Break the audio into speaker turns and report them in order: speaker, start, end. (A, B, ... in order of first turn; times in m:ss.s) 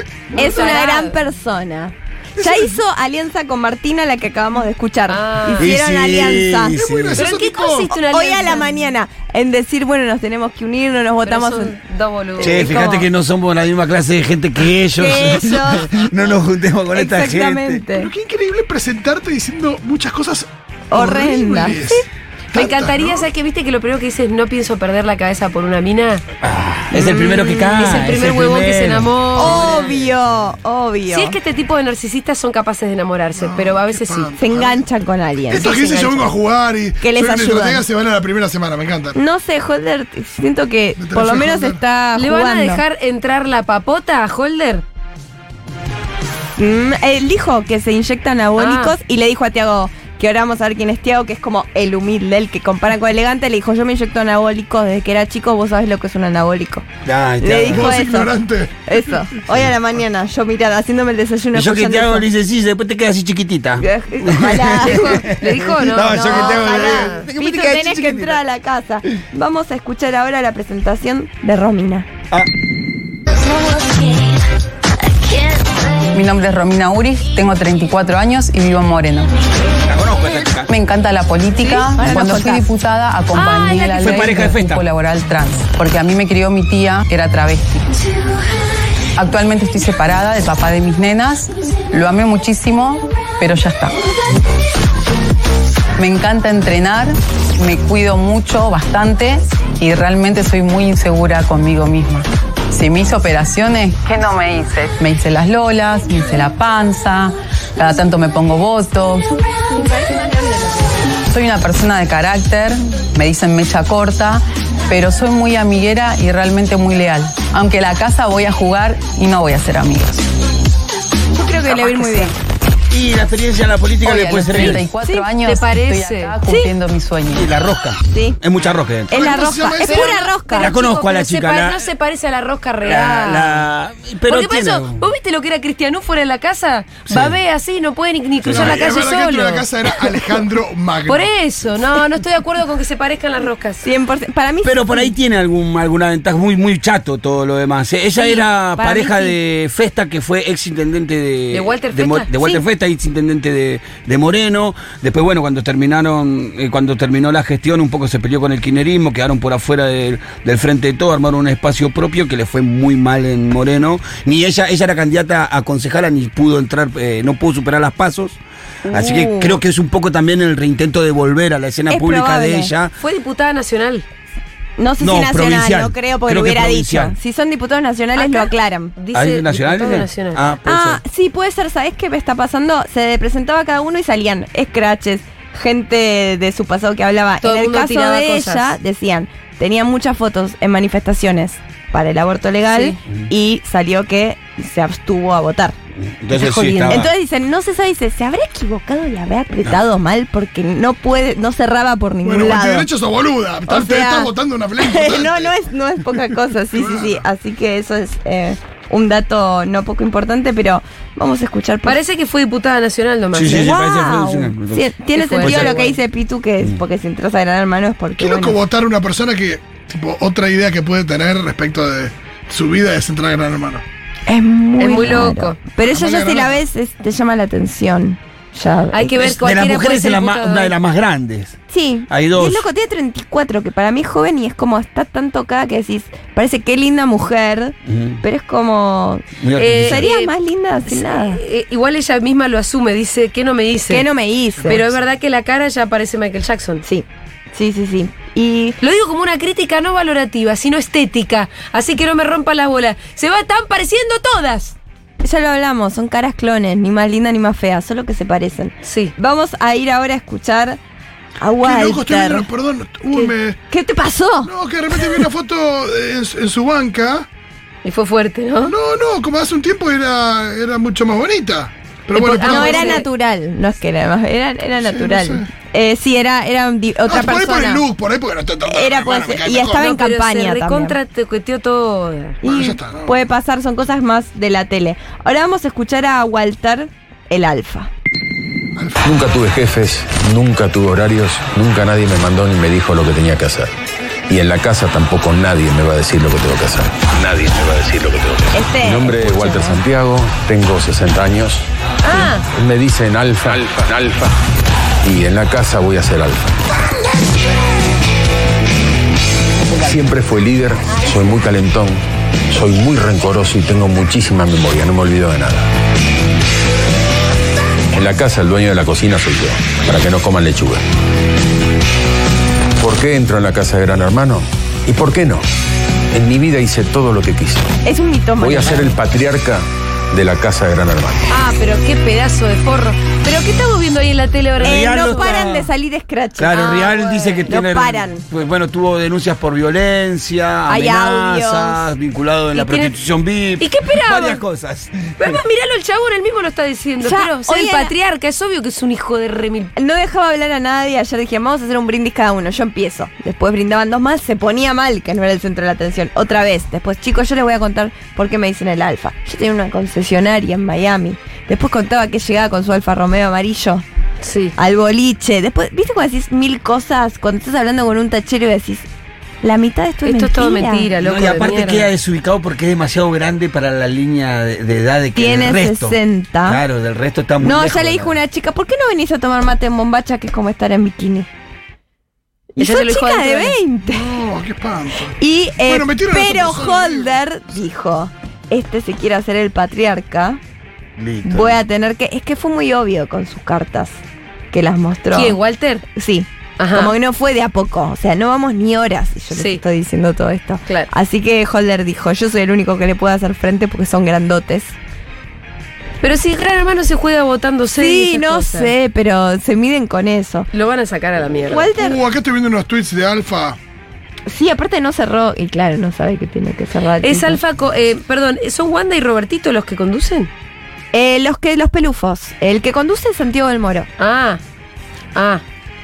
0:00.3-0:01.2 A
0:00.4-0:06.8 B
0:02.4-0:02.8 C
0:05.1-0:05.8 A
0:05.6-0:07.3 D
0:06.7-0:07.9 C
0:07.2-0:08.8 A
0:07.9-0:11.7 B
0:11.2-0:13.1 A
0:12.5-0:18.0 D
0:15.0-0:15.9 B
0:16.9-0:18.1 B
0:17.9-0:23.3 C
0:20.9-0:22.0 B
0:22.5-0:26.2 A
0:26.4-0:30.5 D
0:26.9-0:29.9 A
0:29.4-0:31.4 B
0:31.1-0:34.3 A
0:33.4-0:34.9 C
0:34.4-0:36.3 B
0:35.5-0:39.2 C
0:37.0-0:37.8 B
0:39.2-0:42.8 B
0:41.0-0:41.8 C
0:42.2-0:44.8 A
0:46.6-0:56.9 B
0:48.6-0:49.0 A
0:57.0-0:57.9 D
0:57.4-0:58.3 B
0:57.7-0:58.7 C
0:58.9-1:02.3 B
1:01.5-1:08.4 D
1:03.8-1:05.2 B
1:04.9-1:07.3 A
1:06.1-1:12.1 B
1:16.1-1:19.3 E
1:19.9-1:20.7 D
1:20.7-1:27.9 E
1:21.8-1:22.7 B
1:23.3-1:24.1 A
1:23.9-1:24.9 D
1:29.2-1:34.0 E
1:36.0-1:49.3 E
1:49.8-1:50.9 B
1:51.3-2:00.3 E
2:01.4-2:02.3 B
2:01.7-2:02.3 E
2:02.9-2:04.9 D
2:04.0-2:07.5 E
2:05.0-2:05.3 B
2:05.4-2:06.4 A
2:06.5-2:06.7 B
2:07.3-2:09.3 D
2:08.1-2:08.4 B
2:09.1-2:10.7 B
2:09.1-2:10.3 C
2:09.8-2:13.7 A
2:10.6-2:11.9 D
2:12.8-2:15.1 D
2:14.3-2:20.3 A
2:17.1-2:17.4 D
2:18.4-2:18.8 D
2:18.5-2:21.3 C
2:21.1-2:23.8 A
2:23.8-2:25.1 B
2:24.6-2:52.9 D
2:28.3-2:29.3 A
2:28.8-2:29.3 B
2:31.5-2:32.6 A
2:48.8-2:49.6 A
2:51.9-2:52.7 B
2:53.0-2:54.0 A
2:54.8-2:58.9 B
2:55.0-2:57.2 D
2:58.2-3:00.5 A
2:59.1-3:01.0 D
3:00.6-3:15.8 B
3:07.4-3:08.8 A
3:12.7-3:13.0 A
3:16.0-3:17.1 D
3:16.3-3:22.9 B
3:16.4-3:17.0 A
3:22.2-3:25.6 C
3:23.7-3:32.0 B
3:26.7-3:27.2 C
3:31.8-3:33.7 A
3:33.3-3:35.9 D
3:33.5-3:38.6 B
3:35.2-3:36.0 A
3:38.2-3:43.8 C
3:44.3-3:49.0 B
3:44.8-3:45.6 A
3:45.8-3:46.6 C
3:48.9-3:50.8 A
3:49.0-3:52.7 D
3:51.7-3:59.2 B
3:57.9-3:58.2 D
3:59.4-4:00.1 D
3:59.6-4:04.1 A
3:59.8-4:01.4 B
4:03.9-4:04.8 B
4:04.6-4:06.8 A
4:06.8-4:08.8 B
4:08.8-4:14.8 A
4:15.2-4:20.8 B
4:18.8-4:19.1 A
4:21.4-4:22.5 B
4:21.6-4:23.6 C
4:23.7-4:24.5 B
4:24.4-4:27.3 C
4:27.8-4:28.7 A
4:28.6-4:33.0 C
4:32.2-4:33.1 A
4:32.2-4:37.8 B
4:34.8-4:35.5 C
4:37.0-4:39.9 C
4:38.7-4:41.0 B
4:39.8-4:42.4 A
4:42.4-4:47.9 B
4:42.4-4:43.1 C
4:48.8-4:49.3 C
4:49.0-4:53.7 F
4:54.3-5:04.3 F
4:58.5-4:59.8 B
5:02.0-5:02.4 A
5:05.0-5:06.5 F
5:09.7-5:10.1 D
5:09.9-5:15.7 F
5:17.9-5:20.8 F
5:22.8-5:25.4 F
5:26.1-5:27.7 F
5:27.8-5:29.0 B
5:28.4-5:31.3 F
5:31.3-5:35.3 A
5:34.6-5:35.8 D
5:34.6-5:38.2 B
5:36.4-5:45.4 D
5:36.5-5:37.4 A
5:40.7-5:41.9 B
5:42.5-5:43.0 A
5:43.6-5:44.5 A
5:45.2-5:49.7 A
5:47.0-5:47.9 B
5:49.8-6:03.8 B
6:04.2-6:04.5 A
6:04.6-6:08.9 B
6:09.4-6:10.9 B
6:10.0-6:11.9 A
6:11.0-6:18.2 D
6:15.2-6:16.6 B
6:17.4-6:21.3 B
6:22.6-6:24.1 B
6:22.6-6:23.6 A
6:23.8-6:27.2 C
6:25.2-6:30.4 B
6:31.0-6:31.6 D
6:31.2-6:34.0 B
6:34.5-6:35.4 B
6:35.1-6:35.8 A
6:36.0-6:44.7 B
6:36.6-6:36.9 A
6:39.3-6:39.6 A
6:46.0-6:48.8 A
6:47.8-6:50.5 B
6:50.5-6:51.7 A
6:51.5-6:52.0 B
6:51.6-6:53.6 C
6:54.3-6:57.4 B
6:57.0-7:00.3 A
7:00.9-7:03.9 B
7:04.0-7:04.4 A
7:05.2-7:05.4 A